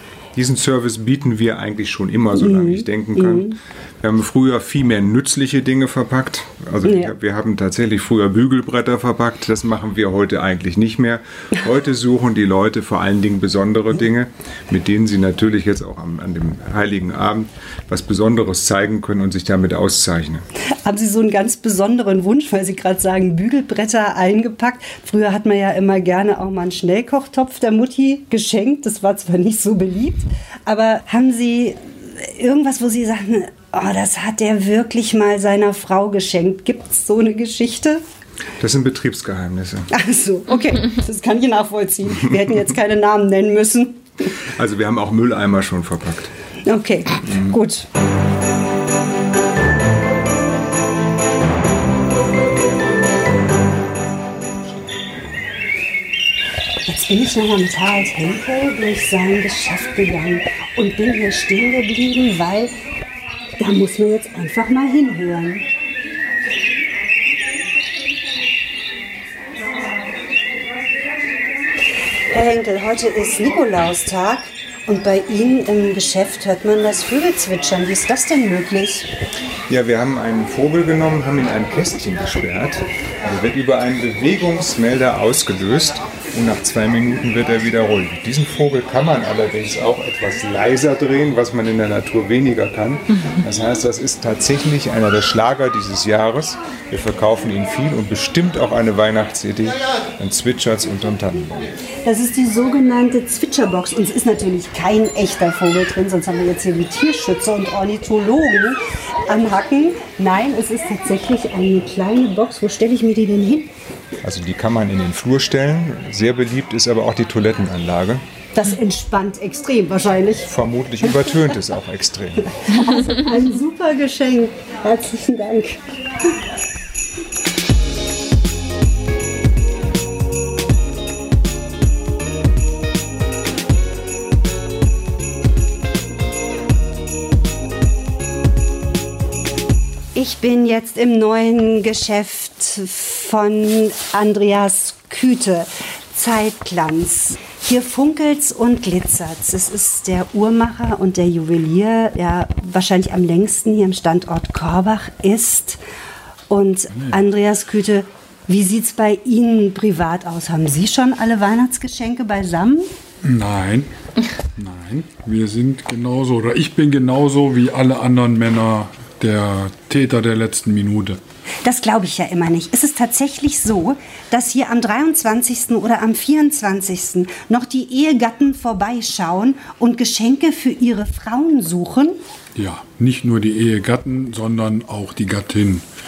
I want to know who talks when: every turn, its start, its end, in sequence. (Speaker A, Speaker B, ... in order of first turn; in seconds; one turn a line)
Speaker A: 0.3-20.4
Speaker B: 2.3-3.5
Speaker B: 6.8-7.1
Speaker B: 20.9-38.0
Speaker A: 38.6-39.9
Speaker B: 39.9-44.0
Speaker A: 44.5-46.3
Speaker B: 46.6-47.9
Speaker B: 56.9-62.7
Speaker B: 63.6-65.6
Speaker B: 72.3-79.1
Speaker A: 79.7-101.6
Speaker B: 102.0-113.7
Speaker A: 114.2-118.2
Speaker B: 118.5-120.5
Speaker A: 120.5-122.5
Speaker B: 121.0-121.5
Speaker B: 122.4-125.8
Speaker B: 140.1-155.8
Speaker B: 156.5-162.9
Speaker C: 163.2-163.9
Speaker C: 164.6-171.2
Speaker B: 171.6-182.1
Speaker C: 182.6-185.8